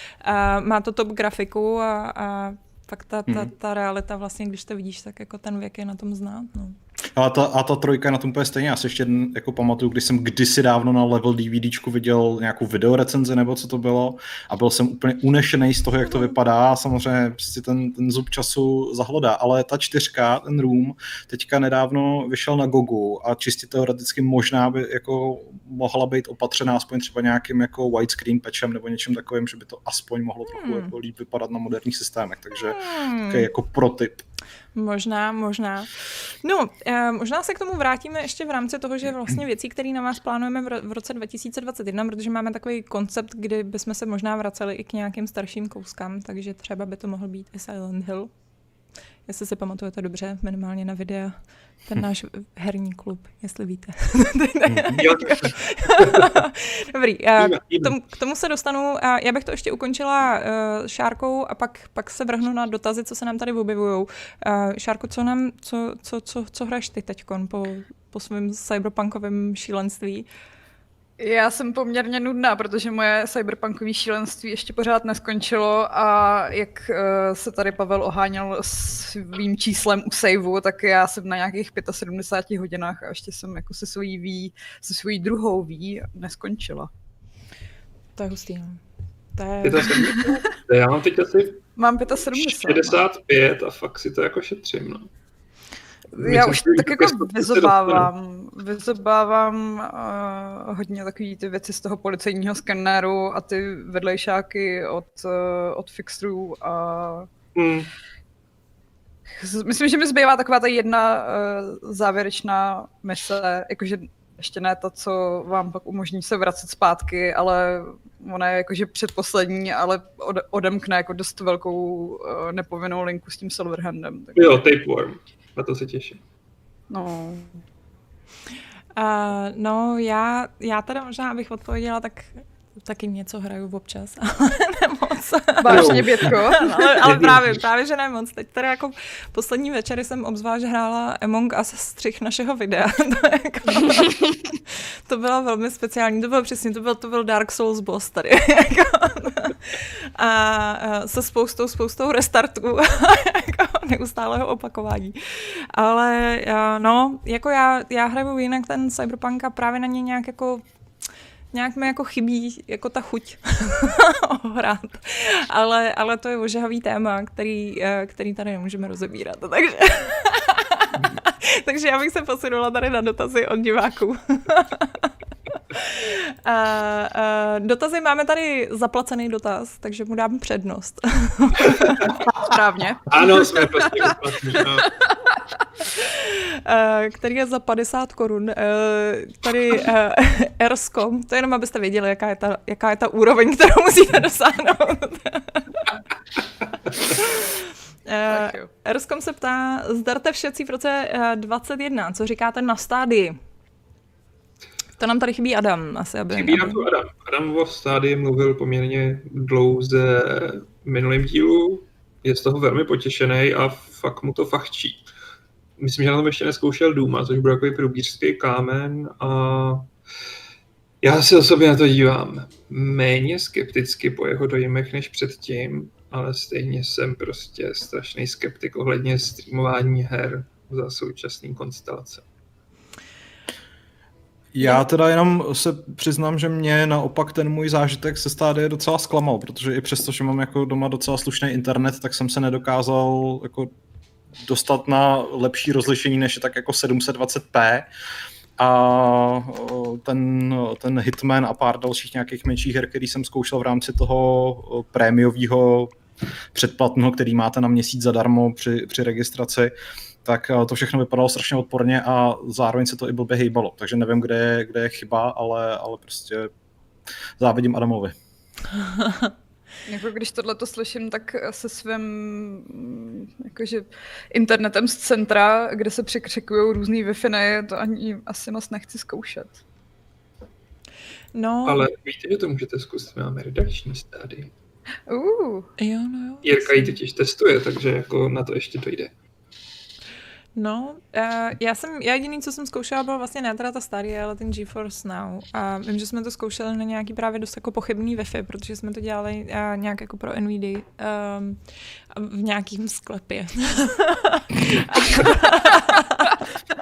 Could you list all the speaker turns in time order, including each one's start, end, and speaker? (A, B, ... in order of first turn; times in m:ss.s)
0:00.2-0:06.8 A
0:07.2-0:34.2 B
0:30.5-0:30.9 A
0:32.6-0:33.5 A
0:34.7-0:35.9 A
0:36.4-0:48.3 A
0:49.2-1:10.3 A
0:54.7-0:55.0 B
0:54.9-0:56.3 C
0:57.4-0:57.9 C
1:11.2-1:26.9 D
1:28.2-1:28.8 A
1:29.4-1:30.0 A
1:29.6-1:31.6 C
1:31.8-1:33.0 D
1:32.3-1:35.1 C
1:36.2-1:38.1 C
1:36.2-1:47.3 D
1:47.5-1:47.9 C
1:49.3-2:04.6 D
2:04.4-2:06.2 C
2:06.9-2:07.6 D
2:09.0-2:24.3 A
2:15.6-2:17.2 D
2:15.7-2:16.4 C
2:17.0-2:17.4 C
2:25.0-2:40.6 A
2:41.5-2:55.1 A
2:55.7-3:02.1 A
3:01.7-3:02.1 C
3:02.3-3:04.8 D
3:03.1-3:04.9 C
3:05.9-3:15.9 A
3:17.0-3:23.4 A
3:18.3-3:18.7 D
3:25.0-3:26.8 A
3:26.3-3:35.0 C
3:35.8-3:39.9 C
3:41.0-3:52.2 C
3:54.5-4:03.7 B
4:04.4-4:07.9 B
4:08.6-4:15.9 B
4:16.5-4:19.7 B
4:20.2-4:26.5 B
4:27.4-4:28.1 B
4:28.8-4:29.3 A
4:29.9-4:39.6 D
4:41.3-4:41.8 A
4:41.6-4:44.5 C
4:45.1-4:45.7 D
4:45.8-4:47.0 A
4:46.4-4:49.1 C
4:50.6-5:06.4 A